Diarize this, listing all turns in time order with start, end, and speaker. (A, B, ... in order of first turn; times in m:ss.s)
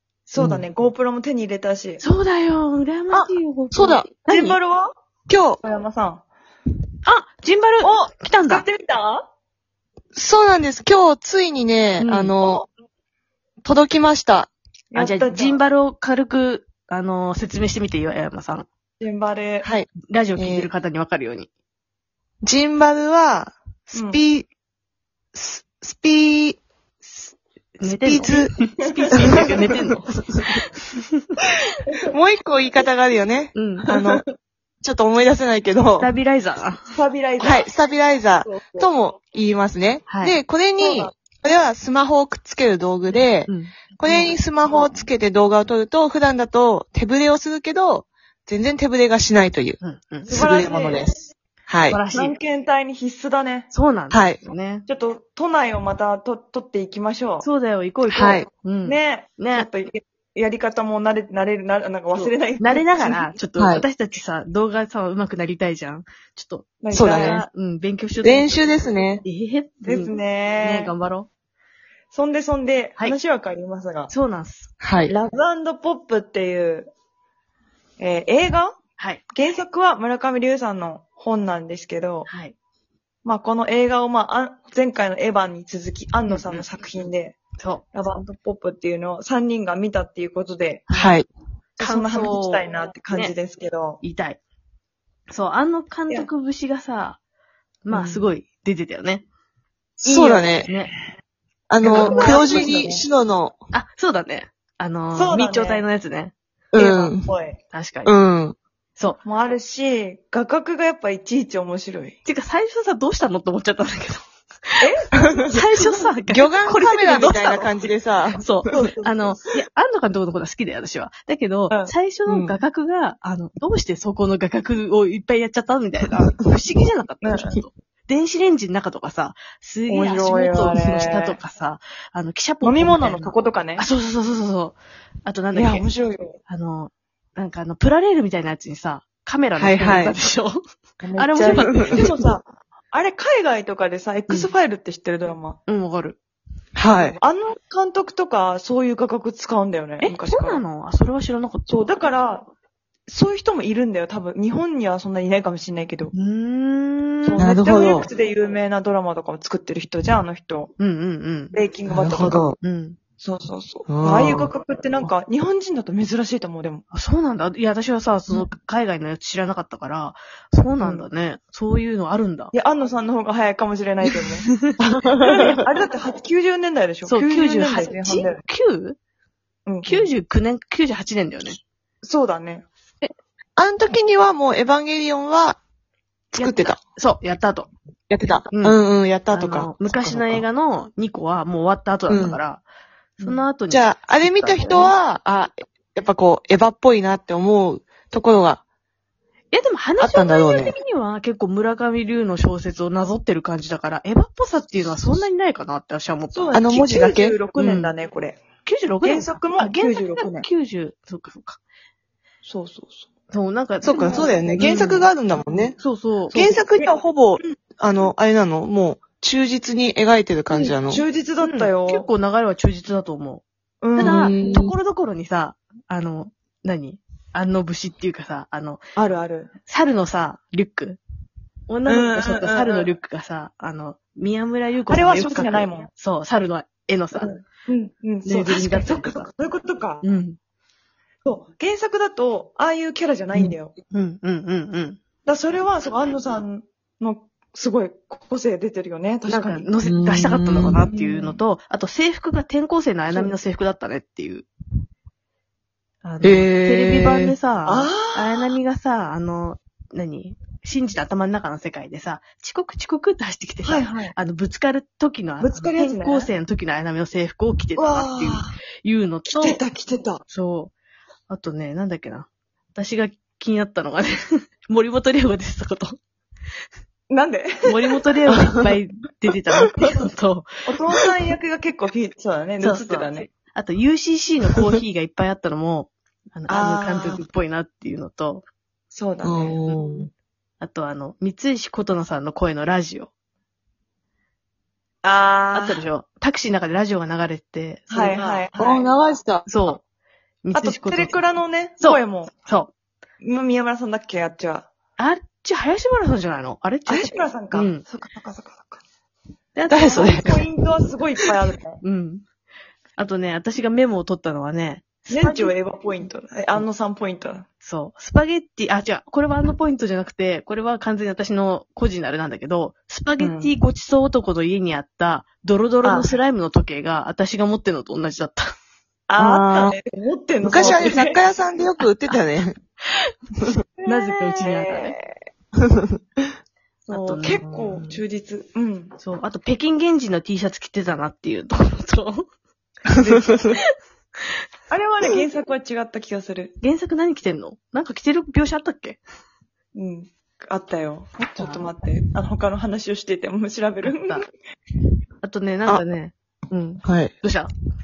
0:00.3-0:02.0 A
0:00.4-0:00.6 B
0:02.0-0:04.6 C
0:03.1-0:04.1 B
0:04.2-0:04.9 A
0:05.3-0:05.6 B
0:05.6-0:06.2 A
0:07.0-0:08.6 C
0:07.8-0:09.3 A
0:10.1-0:12.6 B
0:12.0-0:12.3 C
0:13.6-0:14.5 B
0:14.9-0:15.6 A
0:15.0-0:18.7 C
0:19.0-0:19.7 A
0:19.6-0:20.7 B
0:20.1-0:21.5 C
0:22.4-0:24.5 B
0:23.9-0:24.2 A
0:25.3-0:26.6 B
0:27.8-0:31.3 C
0:27.8-0:28.5 B
0:28.3-0:29.6 A
0:32.1-0:34.2 B
0:33.5-0:33.8 C
0:33.9-0:34.2 A
0:34.8-0:36.1 B
0:36.0-0:36.9 C
0:36.9-0:37.7 A
0:37.4-0:43.5 B
0:38.4-0:38.9 A
0:40.1-0:40.4 C
0:40.8-0:41.1 A
0:43.5-0:43.7 C
0:44.0-0:51.2 B
0:44.0-0:44.4 A
0:49.8-0:50.4 C
0:50.3-0:51.1 A
0:51.7-0:52.0 B
0:51.9-0:52.3 C
0:52.1-0:53.7 A
0:53.7-0:54.8 C
0:54.1-0:54.4 B
0:54.8-0:57.5 A
0:57.4-0:59.7 C
0:58.1-0:58.5 B
0:58.8-1:03.3 A
1:02.1-1:08.6 C
1:03.6-1:03.8 B
1:06.8-1:07.4 A
1:06.9-1:07.4 B
1:08.2-1:09.2 B
1:09.2-1:11.3 C
1:09.8-1:10.9 A
1:12.1-1:14.1 A
1:14.1-1:14.7 C
1:14.8-1:15.1 B
1:15.1-1:16.9 A
1:18.0-1:18.8 A
1:19.3-1:22.3 A
1:22.3-1:22.5 C
1:23.2-1:27.4 A
1:26.3-1:26.7 C
1:27.6-1:28.2 C
1:27.9-1:30.8 A
1:30.9-1:31.2 C
1:30.9-1:31.3 B
1:31.8-1:34.0 A
1:31.8-1:33.3 C
1:34.0-1:34.4 C
1:35.3-1:37.2 C
1:37.8-1:39.2 C
1:37.9-1:38.2 A
1:40.0-1:40.8 A
1:40.0-1:40.7 B
1:41.7-1:43.6 B
1:41.8-1:43.0 A
1:41.8-1:42.9 C
1:43.7-1:46.3 C
1:45.1-1:45.9 A
1:46.7-1:47.2 B
1:46.8-1:47.6 A
1:47.7-1:48.1 C
1:48.0-1:48.6 B
1:49.2-1:52.2 A
1:52.2-1:54.8 C
1:54.8-1:56.1 A
1:55.5-1:57.8 C
1:56.3-1:58.9 B
1:58.4-2:15.8 C
1:58.6-1:59.4 A
2:02.3-2:02.6 B
2:07.2-2:07.6 A
2:09.9-2:11.4 A
2:12.6-2:13.9 A
2:15.5-2:16.4 A
2:16.5-2:20.6 C
2:19.6-2:20.2 B
2:21.0-2:25.6 A
2:21.2-2:22.1 C
2:21.3-2:22.1 B
2:25.7-2:26.2 C
2:26.8-2:27.2 B
2:26.9-2:30.6 A
2:30.0-2:31.9 C
2:31.7-2:32.5 A
2:33.1-2:36.1 A
2:36.1-2:37.4 C
2:37.2-2:40.7 A
2:37.4-2:38.0 B
2:40.8-2:41.5 C
2:41.5-2:42.4 A
2:41.9-2:42.6 B
2:42.6-2:43.0 C
2:43.2-2:46.8 A
2:43.9-2:44.5 B
2:46.9-2:52.5 C
2:50.8-2:51.1 A
2:52.5-2:54.5 A
2:54.1-2:54.8 C
2:55.2-2:58.4 A
2:55.3-2:55.6 C
2:57.0-2:59.0 C
2:59.6-3:00.1 A
2:59.8-3:01.6 C
3:02.0-3:02.6 A
3:03.6-3:05.6 B
3:06.3-3:06.8 B
3:06.3-3:07.7 C
3:08.1-3:10.4 B
3:08.5-3:08.8 C
3:09.3-3:12.6 C
3:12.1-3:12.4 B
3:13.2-3:14.9 C
3:13.7-3:18.6 B
3:19.5-3:26.6 C
3:20.0-3:20.8 B
3:26.3-3:28.4 A
3:26.5-3:27.4 B
3:27.6-3:27.9 C
3:28.6-3:31.6 C
3:29.0-3:30.5 A
3:32.4-3:33.1 A
3:33.3-3:35.1 C
3:33.8-3:35.8 B
3:33.9-3:34.4 A
3:35.8-3:36.6 C
3:36.3-3:41.0 B
3:36.5-3:36.9 A
3:40.5-3:42.1 A
3:41.4-3:43.4 C
3:43.8-3:44.3 A
3:44.0-3:48.8 C
3:44.0-3:44.7 B
3:49.0-3:49.5 A
3:49.7-3:51.0 C
3:51.7-3:57.3 C
3:51.8-3:52.9 A
3:54.9-3:55.9 A
3:57.1-4:00.0 A
3:58.2-3:59.3 C
4:00.0-4:00.4 C
4:01.2-4:03.7 A
4:03.9-4:05.0 C
4:05.2-4:09.7 A
4:09.3-4:14.5 C
4:09.8-4:10.8 B
4:10.8-4:11.4 A
4:13.1-4:13.4 A
4:16.0-4:29.6 C
4:16.2-4:17.4 B
4:17.6-4:18.5 A
4:23.6-4:24.1 A
4:25.4-4:26.3 A
4:27.8-4:28.5 A
4:29.3-4:30.2 A
4:30.3-4:30.7 C
4:31.3-4:36.0 C
4:37.1-4:37.9 A
4:37.7-4:40.5 C
4:40.6-4:43.3 A
4:42.6-4:48.4 C
4:46.5-4:47.2 A
4:48.9-4:49.8 A
4:49.2-4:50.1 B
4:50.6-4:53.1 C
4:55.0-4:55.8 A
4:55.5-4:58.4 C
4:57.9-4:58.9 A
4:58.6-4:59.5 B
4:59.4-4:59.8 C
5:00.4-5:01.2 C
5:00.5-5:02.3 A
5:01.8-5:02.7 C
5:03.2-5:04.7 A
5:05.0-5:07.8 C
5:06.9-5:08.8 A
5:09.5-5:10.5 C
5:09.7-5:10.4 B
5:09.9-5:11.8 A
5:11.8-5:12.2 C
5:13.0-5:15.5 C
5:15.1-5:17.4 A
5:17.6-5:28.5 C
5:23.2-5:23.6 A
5:25.8-5:26.1 A
5:29.1-5:31.2 A
5:29.2-5:29.7 B
5:30.4-5:32.6 B
5:30.5-5:31.0 C
5:33.8-5:35.2 A
5:33.8-5:35.0 C
5:36.8-5:39.0 A
5:36.9-5:37.4 C
5:37.3-5:37.8 B
5:39.0-5:42.3 C
5:43.0-5:43.7 C
5:44.7-5:46.5 A
5:46.6-5:49.0 C
5:49.7-5:54.2 A
5:51.2-5:51.7 C
5:53.8-5:54.2 C
5:55.2-5:57.5 C
5:56.8-5:57.1 B